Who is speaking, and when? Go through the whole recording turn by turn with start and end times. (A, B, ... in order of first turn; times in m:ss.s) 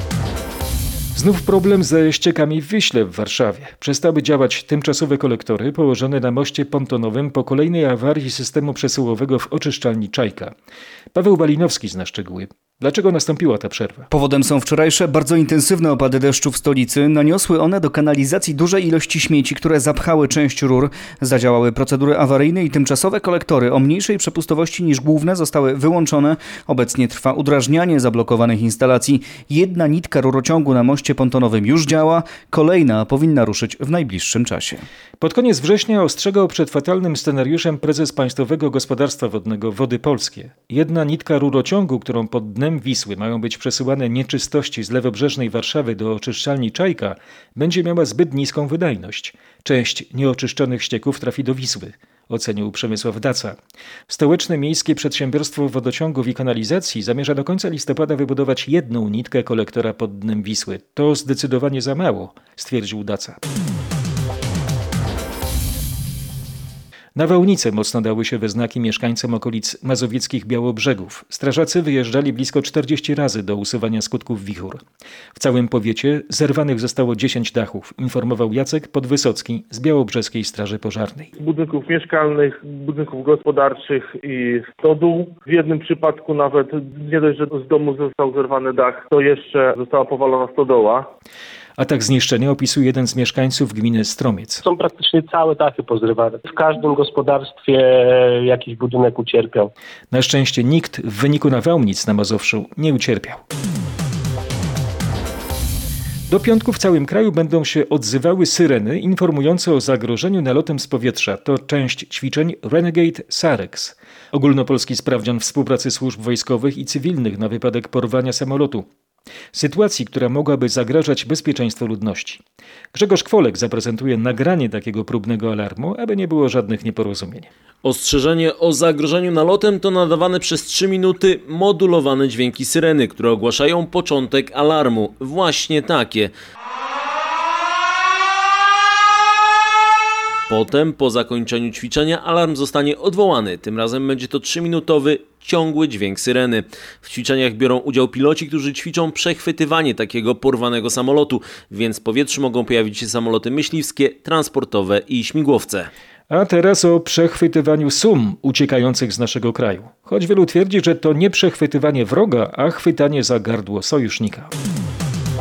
0:01.1-0:10.5 A
0:11.1-0:14.1 A
0:14.1-0:34.8 B
0:35.2-0:53.6 A
0:54.1-1:03.4 A
1:07.1-1:14.8 A
1:15.4-1:21.3 A
1:21.4-1:30.9 C
1:31.8-1:34.6 A
1:34.6-1:39.7 D
1:40.1-1:43.4 A
1:46.3-1:58.9 A
1:59.5-2:02.4 A
2:02.9-2:07.5 A
2:07.8-2:16.3 E
2:20.5-2:35.9 E
2:36.3-2:44.5 A